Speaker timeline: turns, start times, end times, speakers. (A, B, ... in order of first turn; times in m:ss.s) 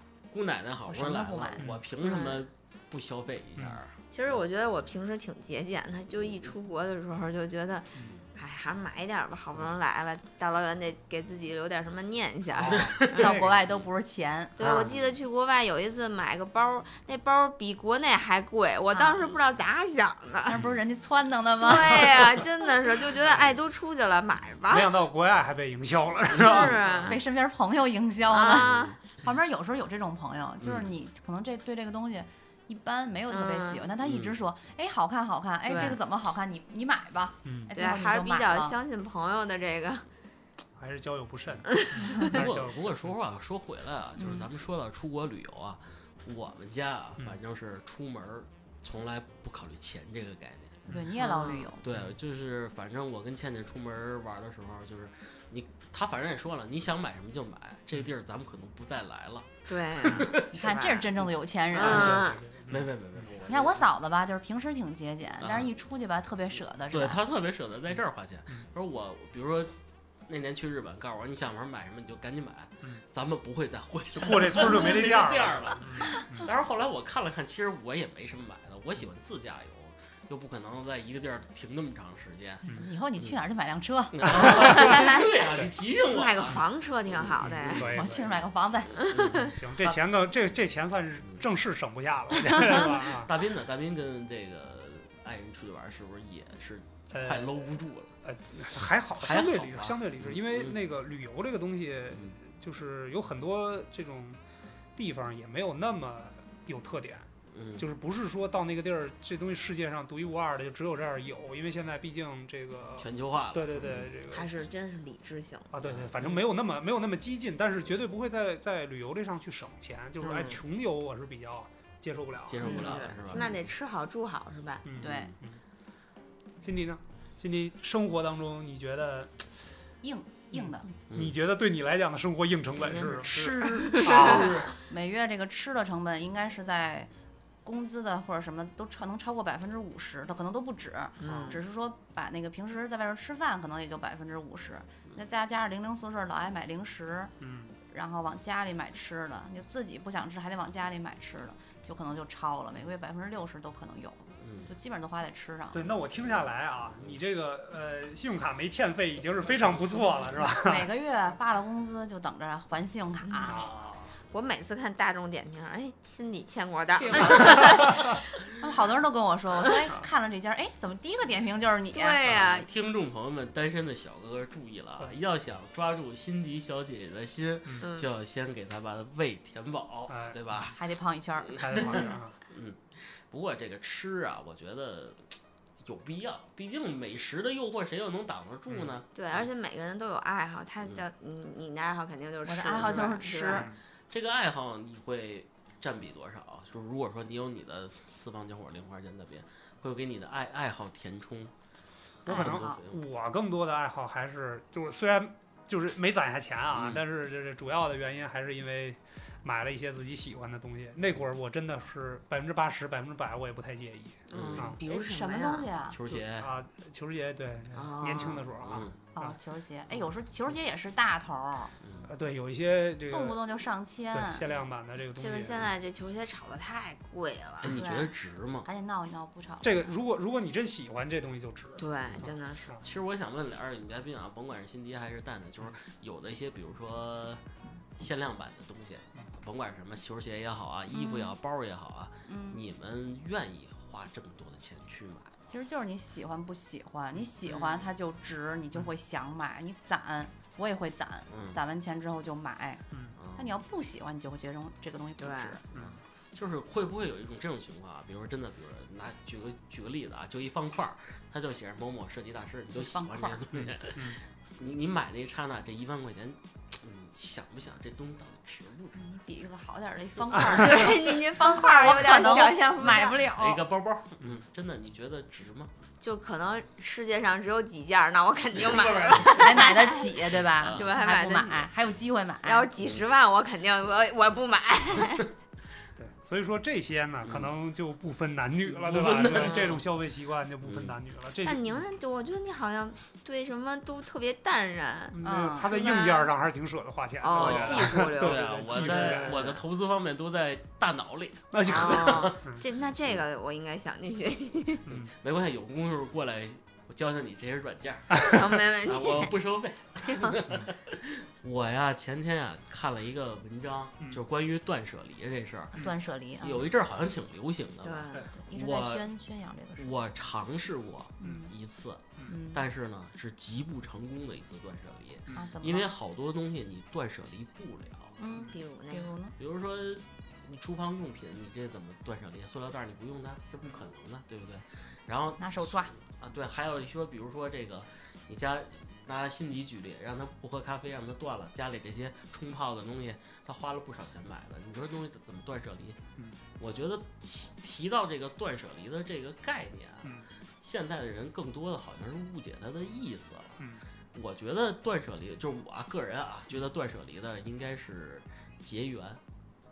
0:00.3-0:04.0 A
0:00.9-0:01.6 B
0:02.0-0:02.5 C
0:04.1-0:13.2 C
0:12.5-0:13.6 D
0:12.6-0:13.8 A
0:13.1-0:14.8 B
0:14.6-0:20.6 C
0:14.6-0:15.1 A
0:18.9-0:19.3 B
0:20.4-0:22.2 B
0:21.6-0:24.9 C
0:24.7-0:26.8 D
0:26.3-0:27.2 C
0:26.7-0:27.1 A
0:27.1-0:38.7 B
0:28.3-0:29.0 C
0:28.5-0:29.0 A
0:30.6-0:30.9 A
0:33.3-0:33.8 C
0:34.0-0:34.4 A
0:35.7-0:36.0 C
0:37.4-0:37.7 D
0:37.7-0:40.0 C
0:40.8-0:42.9 D
0:41.8-0:42.3 C
0:42.3-0:50.9 A
0:44.2-0:44.5 B
0:50.9-0:51.8 B
0:51.2-0:51.7 C
0:51.8-1:00.4 A
0:59.7-1:01.1 C
1:00.5-1:02.3 B
1:01.7-1:02.4 C
1:01.8-1:02.9 D
1:01.8-1:03.9 A
1:03.4-1:07.2 B
1:05.4-1:05.7 A
1:06.9-1:09.7 A
1:10.3-1:22.6 A
1:14.1-1:16.5 D
1:22.6-1:24.6 B
1:24.1-1:28.3 A
1:24.5-1:24.9 D
1:24.6-1:25.3 C
1:26.1-1:27.9 C
1:27.4-1:28.3 D
1:27.8-1:29.1 B
1:29.0-1:29.5 A
1:29.1-1:29.5 C
1:29.4-1:33.3 D
1:32.5-1:38.1 A
1:37.1-1:37.7 D
1:38.2-1:44.4 D
1:39.2-1:40.7 A
1:45.0-1:47.3 D
1:47.5-1:47.8 A
1:47.8-1:54.5 D
1:53.0-1:54.1 A
1:54.3-1:55.7 C
1:55.7-2:03.0 D
1:55.8-1:56.4 A
2:00.2-2:00.6 C
2:02.4-2:03.7 A
2:02.6-2:04.8 C
2:04.8-2:05.6 D
2:05.0-2:05.3 B
2:06.6-2:09.5 D
2:10.0-2:10.9 B
2:10.5-2:14.7 D
2:12.7-2:14.7 C
2:14.0-2:17.1 B
2:17.6-2:27.3 B
2:21.2-2:21.6 C
2:27.4-2:27.7 D
2:27.9-2:35.8 B
2:34.4-2:34.7 A
2:35.7-2:40.9 D
2:39.7-2:40.3 A
2:40.6-2:43.7 B
2:43.2-2:43.6 C
2:43.5-2:44.2 A
2:44.3-2:48.2 C
2:46.9-2:48.0 B
2:48.6-2:52.2 B
2:51.9-2:52.7 C
2:52.2-3:00.8 A
2:57.8-2:58.1 C
3:00.1-3:00.7 D
3:00.7-3:02.1 B
3:01.5-3:09.5 A
3:01.6-3:02.3 D
3:09.1-3:13.7 C
3:12.4-3:13.7 B
3:13.5-3:13.7 D
3:14.1-3:21.5 A
3:22.2-3:23.0 A
3:22.2-3:22.8 B
3:22.3-3:34.8 D
3:26.7-3:27.0 A
3:34.3-3:35.7 C
3:34.3-3:34.8 A
3:34.8-3:36.0 B
3:35.9-3:36.5 A
3:36.4-3:39.4 D
3:37.7-3:38.5 C
3:38.6-3:39.0 A
3:39.1-3:41.7 B
3:41.8-3:42.1 A
3:42.1-3:43.4 D
3:43.1-3:44.4 B
3:44.1-3:45.7 D
3:45.2-3:47.7 C
3:47.6-3:48.7 A
3:47.7-3:48.1 B
3:48.6-3:49.9 B
3:49.6-3:52.8 D
3:51.8-3:52.8 C
3:52.8-3:57.4 A
3:58.0-4:05.3 A
4:00.9-4:01.3 C
4:02.2-4:02.6 B
4:05.5-4:12.8 B
4:07.4-4:07.9 C
4:11.3-4:11.6 A
4:13.2-4:13.5 A
4:13.3-4:15.6 B
4:15.2-4:15.6 C
4:15.7-4:29.0 A
4:15.7-4:16.0 D
4:22.7-4:23.4 B
4:23.5-4:24.2 D
4:28.9-4:33.6 B
4:30.5-4:33.2 C
4:32.8-4:35.7 A
4:36.0-4:40.1 C
4:38.6-4:39.2 A
4:39.2-4:42.7 B
4:40.6-4:40.9 A
4:40.7-4:41.7 C
4:42.4-4:45.3 C
4:46.0-4:51.7 D
4:47.2-4:47.5 A
4:48.7-4:49.8 A
4:50.6-4:51.0 A
4:51.4-4:56.3 C
4:55.1-4:59.5 D
4:55.2-4:56.1 B
4:57.2-4:59.6 C
4:57.3-5:02.4 A
5:01.5-5:02.6 D
5:01.6-5:04.8 C
5:05.1-5:15.8 A
5:08.1-5:09.4 C
5:10.0-5:10.4 C
5:15.8-5:16.7 B
5:16.4-5:19.0 A
5:17.8-5:18.3 C
5:18.5-5:19.9 B
5:19.8-5:28.2 A
5:21.2-5:21.5 B
5:22.3-5:22.6 B
5:25.3-5:25.9 B
5:28.2-5:29.4 B
5:28.5-5:29.1 C
5:29.4-5:46.0 A
5:35.4-5:35.9 B
5:46.6-5:53.6 A
5:54.1-5:59.2 A